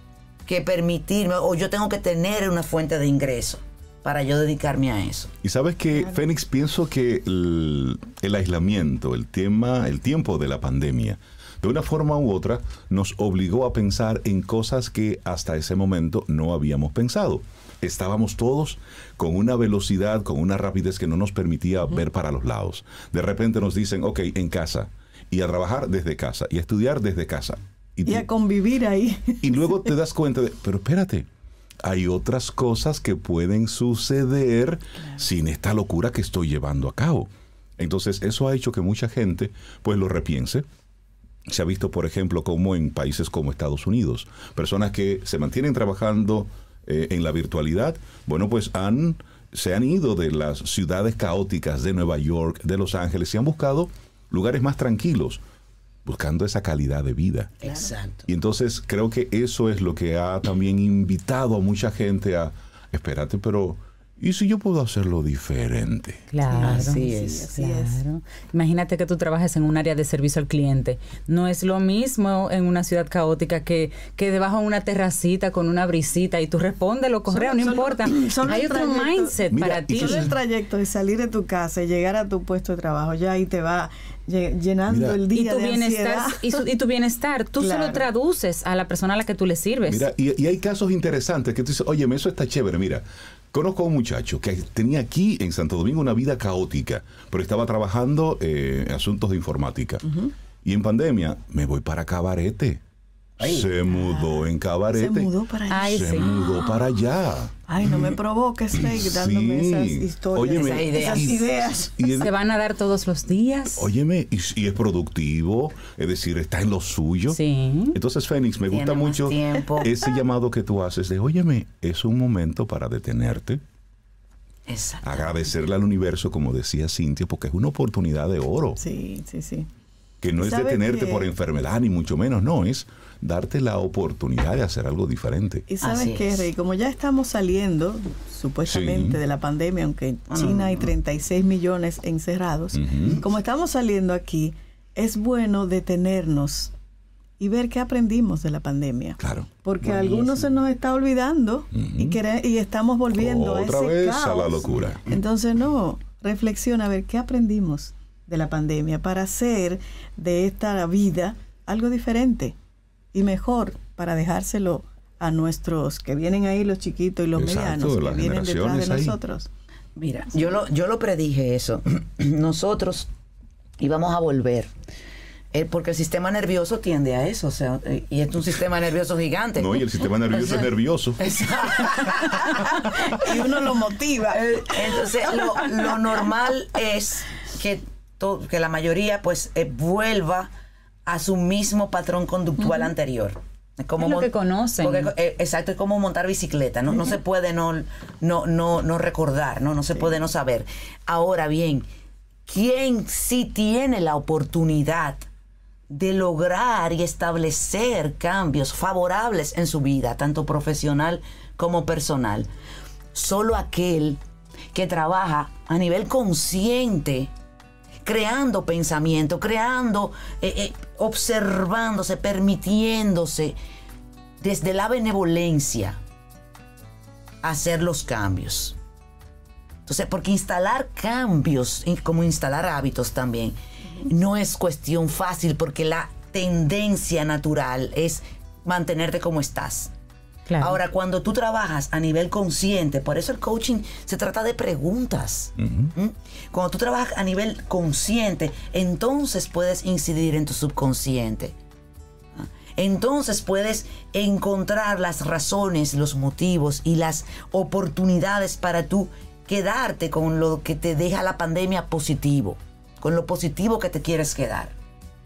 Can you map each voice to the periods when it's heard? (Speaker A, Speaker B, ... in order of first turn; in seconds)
Speaker A: 0.5-5.3, 57.6-58.3, 66.6-67.5, 103.4-103.7, 110.5-111.4, 118.7-119.9, 124.7-125.4, 135.8-136.5, 140.3-140.9, 149.8-150.5, 169.9-173.1, 173.8-174.7, 175.5-183.5, 184.3-190.5, 191.1-201.8, 202.5-205.2, 205.9-212.5, 213.1-214.2, 214.7-217.3, 218.0-223.6, 224.4-226.0, 227.4-228.7, 229.8-239.9, 240.6-251.5, 252.3-264.7
Speaker B: 5.4-28.3, 29.4-31.3, 31.8-40.6, 41.5-55.4, 56.0-57.6, 58.3-66.3, 79.5-80.3, 84.9-85.2, 89.9-100.1, 100.6-102.8, 103.4-105.3, 105.9-107.5, 108.8-112.3, 113.8-117.4, 117.9-123.6, 125.0-128.8, 130.2-135.7, 138.7-139.2, 142.7-143.2, 149.2-149.5, 151.7-152.2, 153.1-155.0, 167.3-169.2, 179.6-181.2, 245.6-245.9
Speaker C: 28.1-29.9, 66.5-68.0, 77.3-86.6, 87.5-88.1, 104.0-106.5, 107.7-112.3, 128.8-129.7, 130.4-131.2, 135.7-146.7, 147.4-162.5, 163.1-169.5, 182.6-185.7, 192.6-192.9
Speaker D: 66.3-80.3, 85.3-90.1, 105.7-106.6, 112.2-113.9, 117.3-118.0, 194.0-195.1, 240.5-240.8